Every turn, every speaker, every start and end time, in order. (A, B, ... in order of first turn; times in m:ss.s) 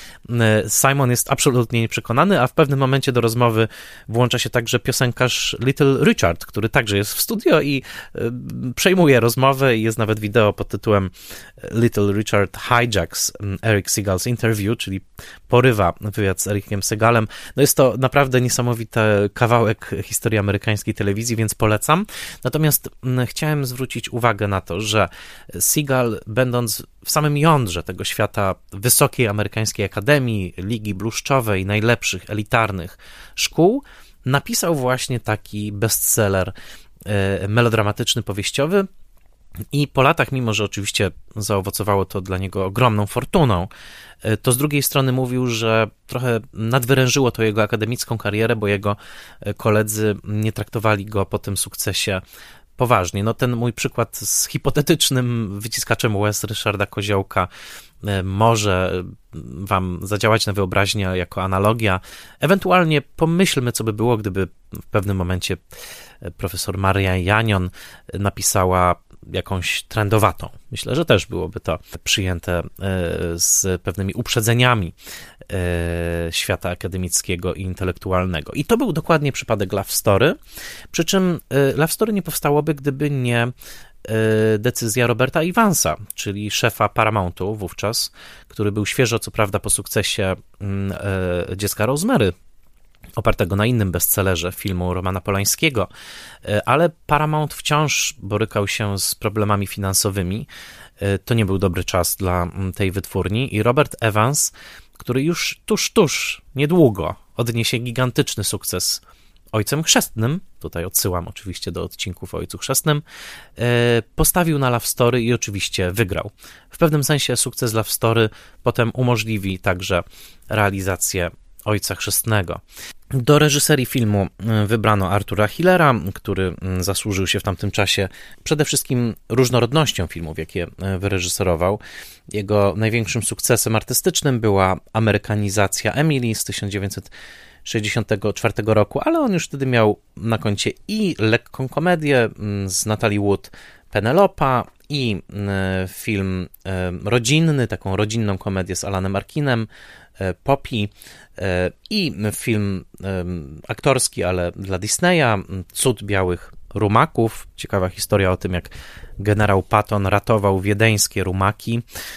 0:00.3-0:36.5 A
0:37.0-0:38.9 A
0:39.7-0:43.7 A
0:44.2-0:52.2 A
0:52.8-0:57.5 A
0:58.0-1:05.6 A
1:06.2-1:14.9 A
1:15.5-1:20.4 A
1:20.9-1:23.5 A
1:24.0-1:32.3 A
1:33.2-1:35.9 A
1:36.4-1:40.5 A
1:41.0-1:49.0 A
1:49.5-1:53.0 A
1:53.6-2:02.6 A
2:03.1-2:17.1 A
2:17.6-2:41.8 A